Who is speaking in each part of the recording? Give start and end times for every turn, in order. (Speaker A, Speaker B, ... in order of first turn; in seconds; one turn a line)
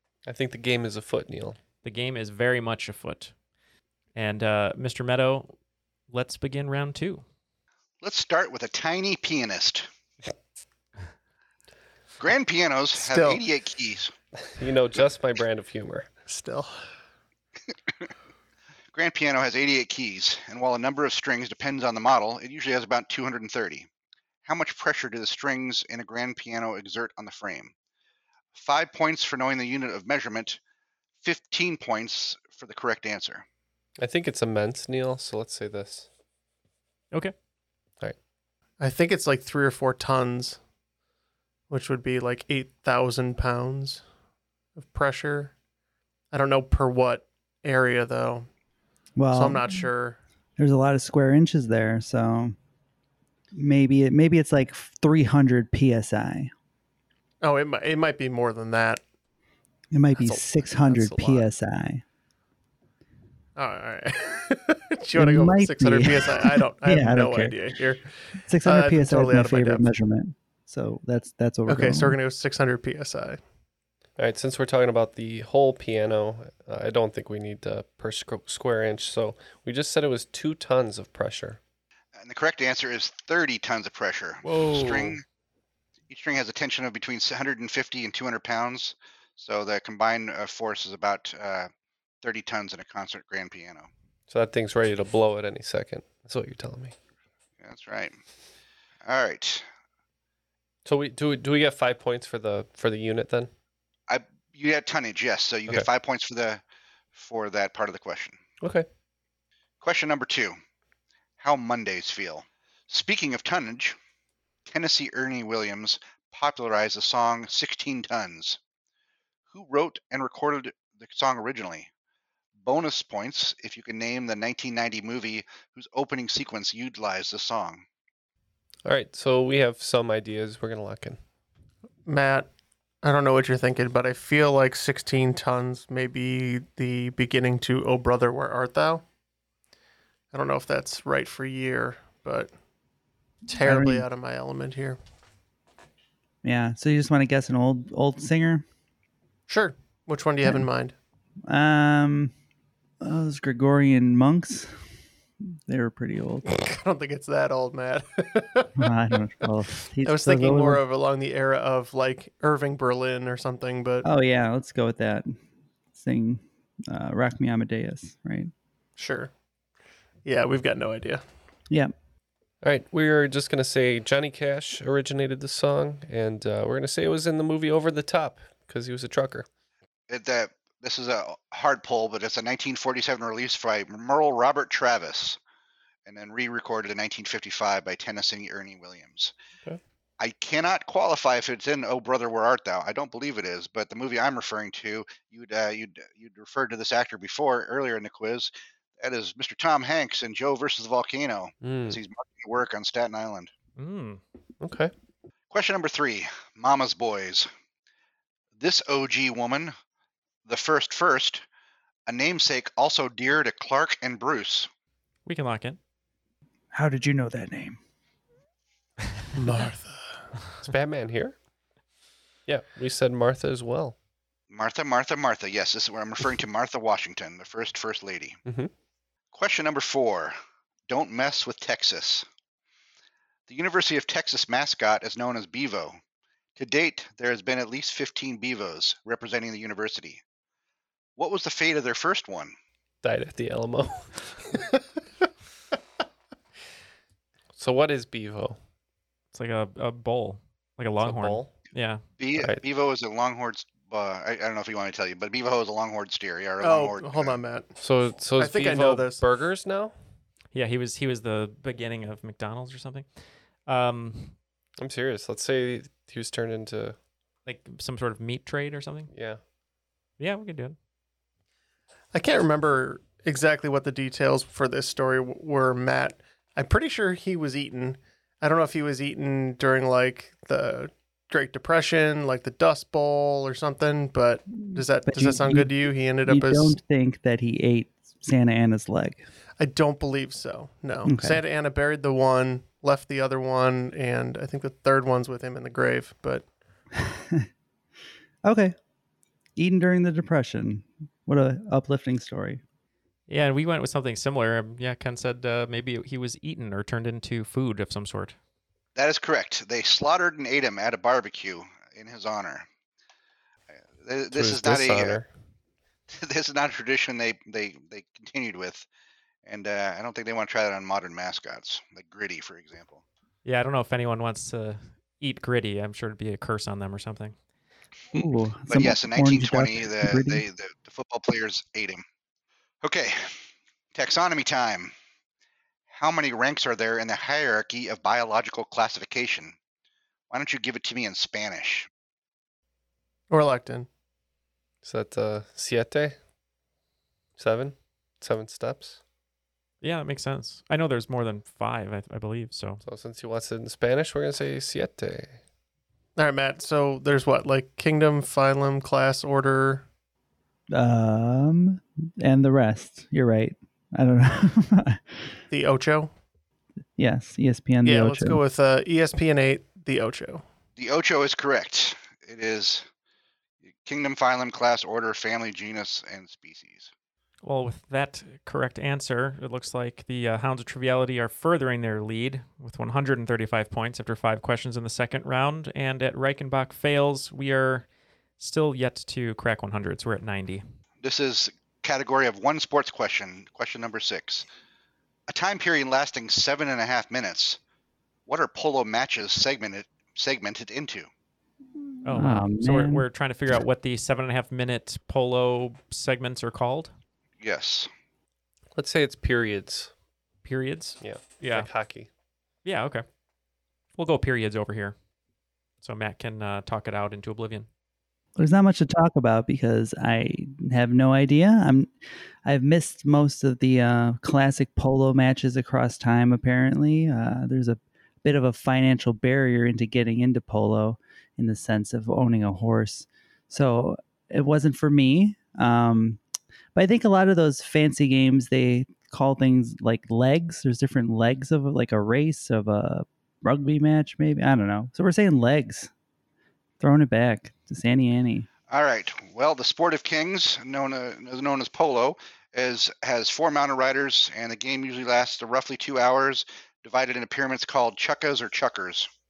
Speaker A: 0.3-1.6
Speaker B: 1.8-3.3
Speaker B: 4.2-5.5
Speaker B: 6.1-7.2
Speaker C: 8.0-9.9
Speaker C: 12.2-14.1
Speaker D: 13.0-13.4
Speaker A: 14.6-16.1
Speaker D: 16.3-16.8
Speaker C: 18.9-23.9
Speaker C: 24.4-27.7
Speaker C: 28.5-30.6
Speaker C: 31.2-33.4
Speaker A: 34.0-36.1
Speaker D: 38.8-40.6
Speaker D: 41.7-44.0
Speaker D: 44.8-45.5
Speaker D: 46.3-48.5
Speaker E: 49.2-49.9
Speaker D: 49.3-50.2
Speaker E: 50.6-52.6
Speaker E: 53.5-56.5
Speaker D: 57.4-59.0
Speaker E: 59.9-62.0
Speaker D: 60.2-61.5
Speaker D: 63.6-69.9
Speaker E: 65.2-67.6
Speaker E: 68.5-72.2
Speaker D: 71.7-73.4
Speaker A: 74.2-81.6
Speaker C: 82.2-85.2
Speaker A: 84.4-85.2
Speaker C: 86.1-91.7
Speaker C: 92.2-93.9
Speaker A: 94.3-96.9
Speaker C: 97.6-98.2
Speaker C: 99.0-99.7
Speaker A: 100.8-103.5
Speaker C: 104.1-106.6
Speaker C: 107.2-108.4
Speaker A: 108.6-108.9
Speaker C: 109.8-110.6
Speaker C: 111.4-114.0
Speaker C: 114.7-118.6
Speaker C: 119.5-121.9
Speaker C: 122.6-127.8
Speaker A: 128.8-131.2
Speaker D: 132.1-132.5
Speaker D: 133.0-139.0
Speaker D: 140.3-142.5
Speaker D: 143.5-145.0
Speaker E: 143.6-144.1
Speaker E: 146.4-148.7
Speaker D: 149.5-150.9
Speaker E: 151.5-152.3
Speaker E: 153.0-154.8
Speaker E: 155.7-156.5
Speaker D: 156.5-158.8
Speaker E: 158.8-160.8
Speaker D: 160.1-164.1
Speaker E: 164.0-165.4
Speaker E: 165.9-168.5
Speaker D: 169.0-169.3
Speaker D: 170.2-171.2
Speaker A: 172.6-179.5
Speaker C: 180.1-185.4
Speaker C: 186.1-189.3
Speaker C: 190.2-203.5
Speaker A: 201.6-202.0
Speaker B: 203.8-204.2
Speaker A: 204.6-204.9
Speaker C: 205.5-207.5
Speaker C: 208.6-209.7
Speaker C: 210.5-211.4
Speaker C: 212.1-214.7
Speaker B: 215.3-215.8
Speaker E: 216.7-217.8
Speaker D: 219.3-220.2
Speaker A: 220.6-221.3
Speaker A: 222.5-223.9
Speaker C: 224.5-228.4
Speaker A: 228.5-228.7
Speaker C: 229.3-230.4
Speaker C: 230.9-232.3
Speaker C: 233.5-236.0
Speaker C: 236.6-240.2
Speaker C: 241.2-242.5
Speaker A: 243.0-244.3
Speaker A: 247.6-248.6
Speaker B: 249.3-252.0
Speaker A: 251.0-251.5
Speaker C: 252.2-257.4
Speaker D: 256.6-257.7
Speaker A: 257.8-259.9
Speaker D: 258.4-259.2
Speaker B: 260.5-263.1
Speaker B: 263.7-264.4
Speaker A: 264.8-267.0
Speaker B: 267.5-269.1
Speaker A: 269.1-269.4
Speaker B: 270.2-270.8
Speaker D: 272.1-286.8
Speaker E: 284.6-289.3
Speaker D: 289.6-296.5
Speaker E: 291.1-291.4
Speaker E: 297.0-297.5
Speaker E: 298.4-298.8
Speaker E: 299.6-302.6
Speaker B: 303.3-308.4
Speaker C: 308.9-312.6
Speaker C: 314.0-315.2
Speaker A: 314.3-315.3
Speaker C: 316.1-318.9
Speaker C: 319.5-323.0
Speaker B: 323.4-327.4
Speaker E: 328.1-330.4
Speaker C: 328.7-332.0
Speaker C: 332.8-333.3
Speaker C: 333.9-334.9
Speaker C: 335.9-339.6
Speaker C: 340.3-341.9
Speaker D: 343.3-343.9
Speaker A: 344.8-346.2
Speaker A: 347.4-349.0
Speaker B: 349.8-352.8
Speaker A: 352.8-355.4
Speaker D: 356.2-359.9
Speaker E: 360.7-365.4
Speaker D: 365.5-366.1
Speaker E: 367.0-368.4
Speaker D: 367.8-370.4
Speaker C: 370.8-372.9
Speaker C: 373.9-376.9
Speaker B: 377.4-387.9
Speaker B: 388.4-390.6
Speaker C: 391.0-394.5
Speaker C: 395.3-397.6
Speaker C: 398.3-401.1
Speaker E: 402.0-403.1
Speaker B: 402.1-406.9
Speaker C: 407.4-407.9
Speaker A: 408.8-409.9
Speaker B: 410.4-411.7
Speaker A: 411.0-412.1
Speaker B: 412.6-413.1
Speaker B: 414.0-414.9
Speaker B: 415.8-417.7
Speaker E: 418.4-421.9
Speaker E: 422.4-436.2
Speaker E: 436.8-445.9
Speaker E: 446.8-448.5
Speaker C: 448.7-459.1